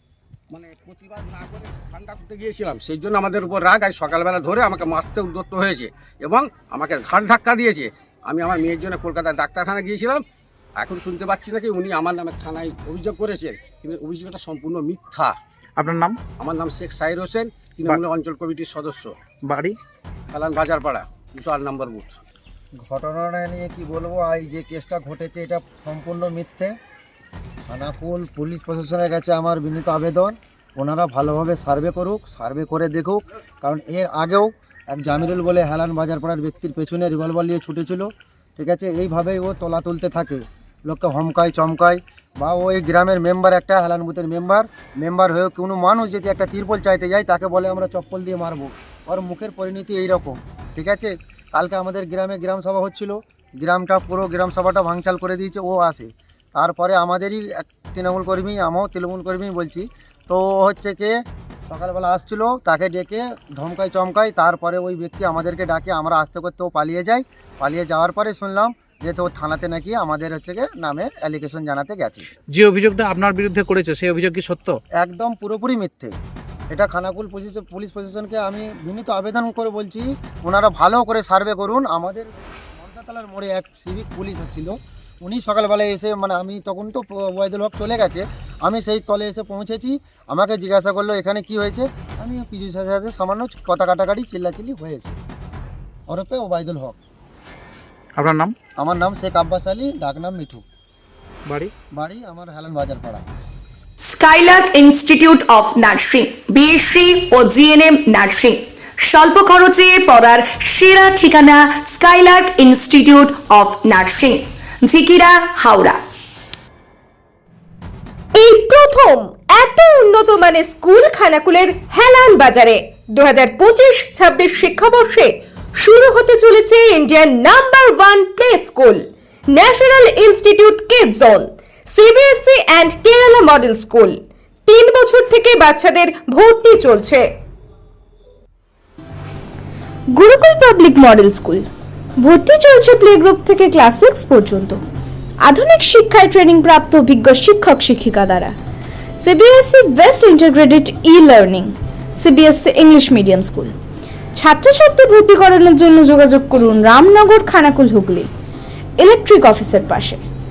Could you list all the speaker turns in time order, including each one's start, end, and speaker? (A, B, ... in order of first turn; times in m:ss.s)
0:00.5-0:10.2 A
0:10.8-0:15.4 A
0:15.8-0:16.2 B
0:16.4-0:19.1 A
0:19.4-0:19.8 B
0:20.3-0:22.2 A
0:22.8-0:26.8 C
0:27.7-1:01.2 C
1:01.7-1:12.2 C
1:12.5-1:14.8 B
1:15.0-1:16.2 C
1:16.7-1:35.2 C
1:36.1-1:37.0 C
1:38.2-1:38.5 B
1:38.8-1:40.6 C
1:41.9-1:43.2 C
1:44.0-1:56.0 D
1:58.4-2:17.3 E
2:20.1-2:21.7 F
2:22.2-2:24.8 F
2:25.4-2:28.6 F
2:29.2-2:33.8 F
2:34.4-2:38.3 F
2:39.0-2:40.2 F